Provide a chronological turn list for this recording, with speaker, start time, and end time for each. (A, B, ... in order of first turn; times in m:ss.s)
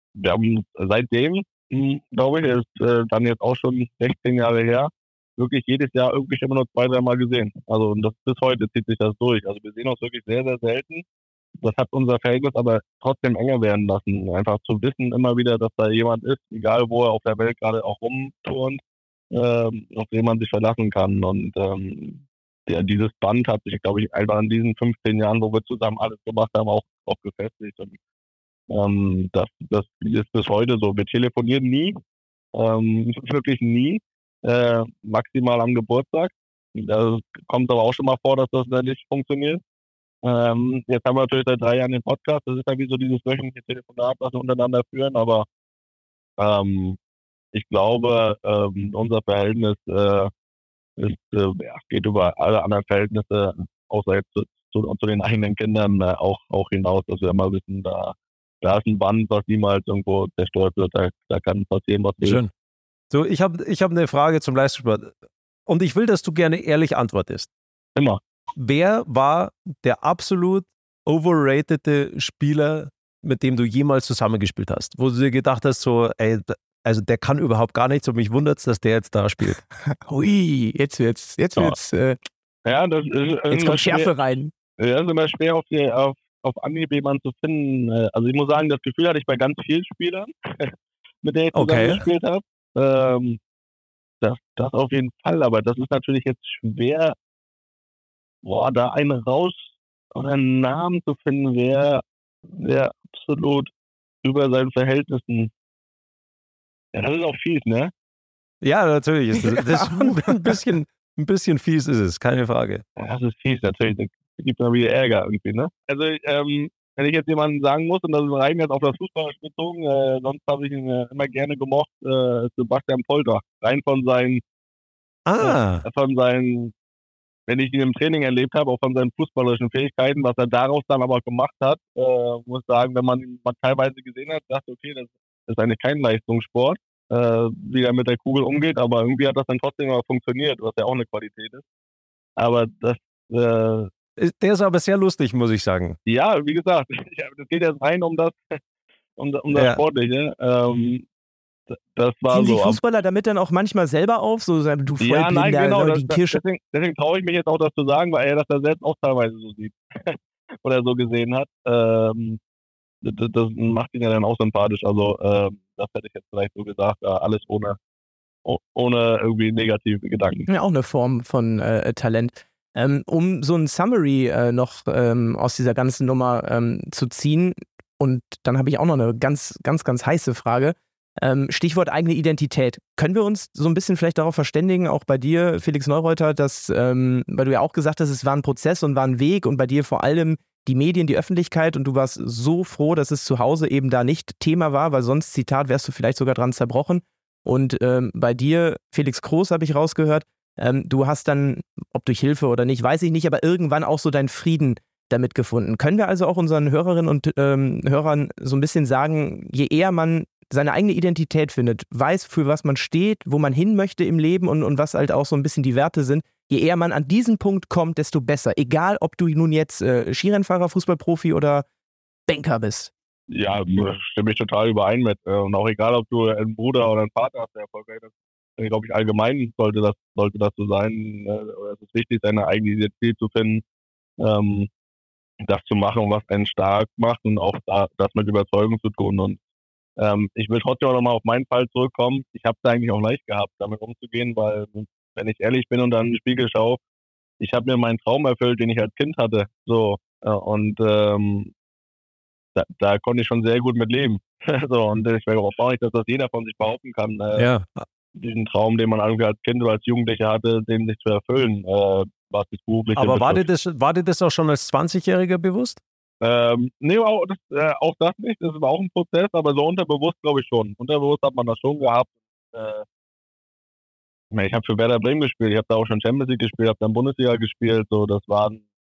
0:00.2-0:11.0 A
0:11.6-0:18.8 A
0:19.3-0:28.0 A
0:28.7-0:32.0 A
0:32.5-0:39.6 A
0:40.2-0:45.5 A
0:46.4-0:47.0 A
0:47.5-0:50.3 A
0:51.0-1:02.4 A
1:02.2-1:02.5 B
1:03.1-1:05.2 B
1:05.7-1:07.5 B
1:08.6-1:19.6 B
1:19.9-1:22.2 C
1:22.6-1:24.1 A
1:23.5-1:24.5 C
1:24.8-1:33.4 A
1:31.5-1:32.0 B
1:34.2-1:37.2 A
1:38.4-1:42.0 A
1:42.5-1:43.7 A
1:44.2-1:45.5 A
1:46.9-1:47.9 A
1:48.6-1:52.8 B
1:53.0-2:04.4 A
2:05.3-2:05.8 B
2:05.4-2:06.7 A
2:07.5-2:21.6 A
2:22.4-2:23.9 A
2:24.2-2:26.0 B
2:26.1-2:28.6 A
2:29.2-2:31.0 A
2:29.5-2:29.8 B
2:32.0-2:32.8 A
2:32.3-2:36.4 C
2:35.0-2:42.4 A
2:43.0-2:47.8 A
2:48.4-2:50.5 A
2:50.5-3:41.6 C
3:42.3-3:42.9 C
3:43.3-3:53.6 A
3:54.2-3:54.7 A
3:55.4-3:59.4 A
4:00.0-4:06.8 A
4:07.4-4:11.5 A
4:12.6-4:17.5 A
4:17.4-4:17.8 B
4:18.2-4:23.4 A
4:23.0-4:25.8 B
4:26.2-4:32.8 A
4:34.3-4:38.6 A